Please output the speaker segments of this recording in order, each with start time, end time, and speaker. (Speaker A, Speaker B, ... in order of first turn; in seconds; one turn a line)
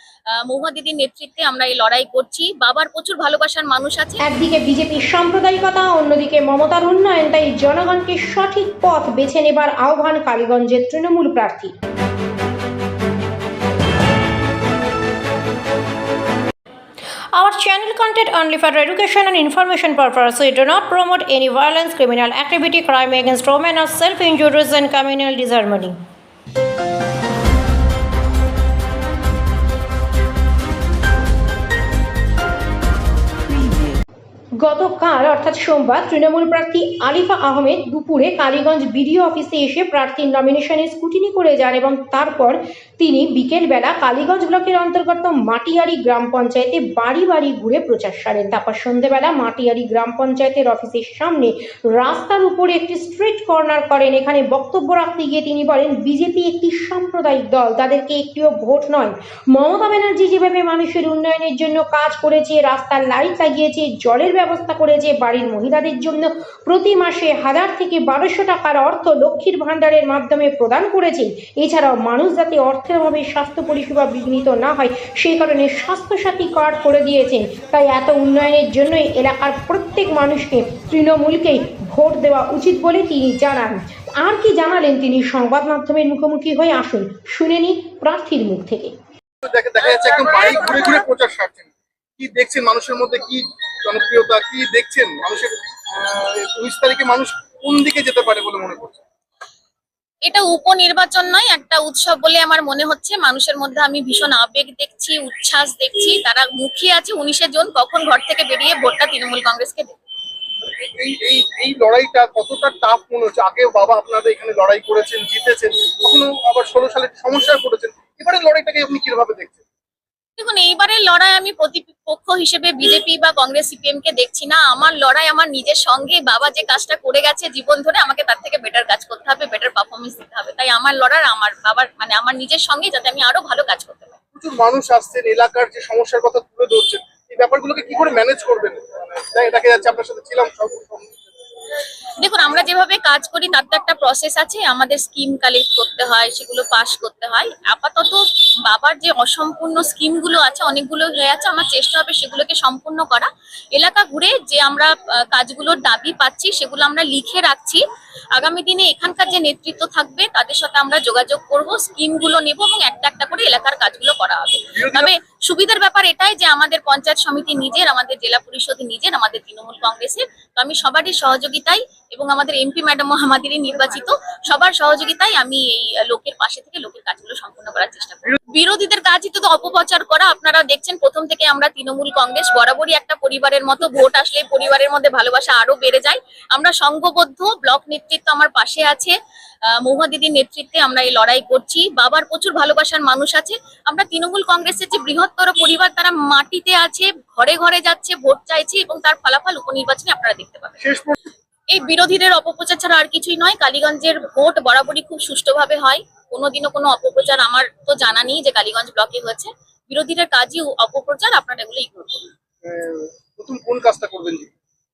Speaker A: 0.3-4.2
Speaker B: 4.2-11.7
Speaker B: 17.3-26.0
Speaker B: 34.6-88.9
Speaker C: 89.5-99.0
Speaker A: 100.2-110.0
Speaker C: 110.7-119.6
Speaker A: 120.4-134.2
Speaker C: 134.3-141.2
Speaker A: 142.2-157.8
Speaker A: 158.3-189.2
Speaker C: 164.7-165.1
Speaker A: 189.8-200.8
Speaker C: 200.8-201.2
Speaker A: 201.7-212.3
Speaker C: 212.6-214.5